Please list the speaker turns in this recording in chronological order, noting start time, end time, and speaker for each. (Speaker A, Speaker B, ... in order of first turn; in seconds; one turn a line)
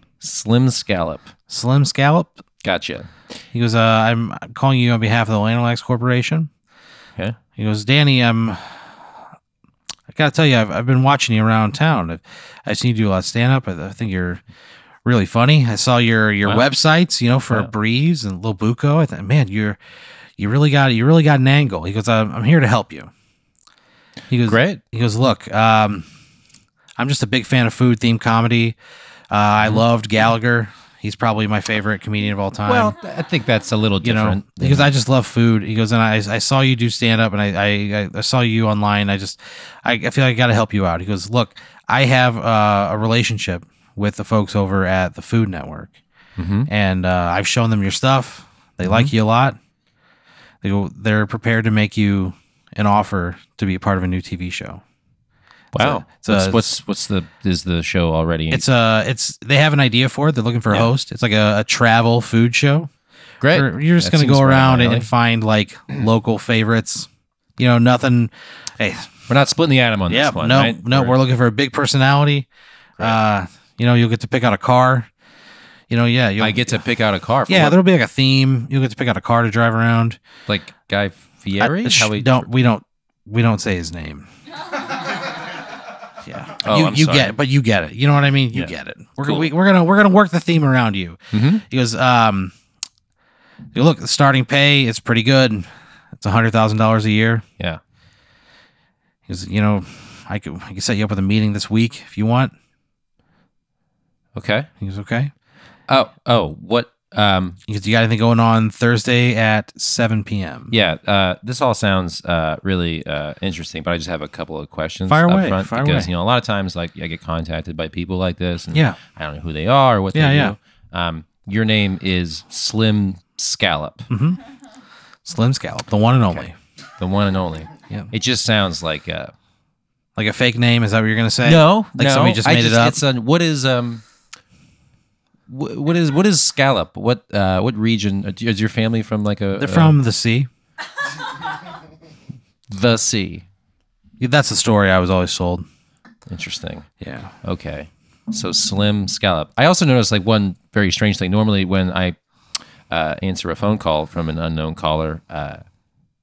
Speaker A: 0.2-1.3
Speaker B: 1.5-2.4
Speaker A: 2.6-3.1
Speaker B: 3.5-6.5
Speaker B: 7.6-8.9
Speaker B: 10.1-14.4
Speaker B: 15.1-19.8
Speaker B: 20.4-23.1
Speaker B: 24.3-26.1
Speaker A: 24.5-24.8
Speaker B: 27.0-28.8
Speaker B: 29.3-33.0
Speaker A: 32.7-34.9
Speaker B: 34.0-46.0
Speaker A: 46.4-46.7
Speaker B: 46.7-49.6
Speaker A: 48.9-49.1
Speaker B: 50.6-54.8
Speaker A: 55.7-58.6
Speaker B: 55.8-56.8
Speaker B: 58.5-62.9
Speaker A: 63.4-65.1
Speaker B: 63.5-69.1
Speaker A: 69.3-71.2
Speaker B: 70.1-72.5
Speaker B: 73.0-75.1
Speaker B: 75.9-76.8
Speaker A: 76.4-77.8
Speaker B: 77.5-80.2
Speaker A: 80.5-82.5
Speaker B: 81.6-84.3
Speaker B: 86.2-92.5
Speaker A: 86.6-87.3
Speaker A: 89.2-89.5
Speaker A: 91.3-91.6
Speaker B: 93.8-95.7
Speaker B: 96.2-97.5
Speaker B: 99.3-102.5
Speaker A: 104.3-104.7
Speaker B: 104.8-105.3
Speaker A: 105.9-107.6
Speaker B: 107.7-110.7
Speaker A: 110.7-124.1
Speaker B: 115.1-116.1
Speaker B: 118.7-119.0
Speaker B: 120.1-120.5
Speaker B: 124.1-124.4
Speaker B: 125.2-126.5
Speaker A: 127.0-129.3
Speaker B: 130.2-133.0
Speaker A: 131.4-134.0
Speaker A: 135.5-140.0
Speaker B: 139.6-140.5
Speaker A: 142.7-143.4
Speaker B: 144.2-145.7
Speaker A: 146.3-146.9
Speaker B: 147.0-147.3
Speaker A: 147.4-152.2
Speaker A: 152.9-155.6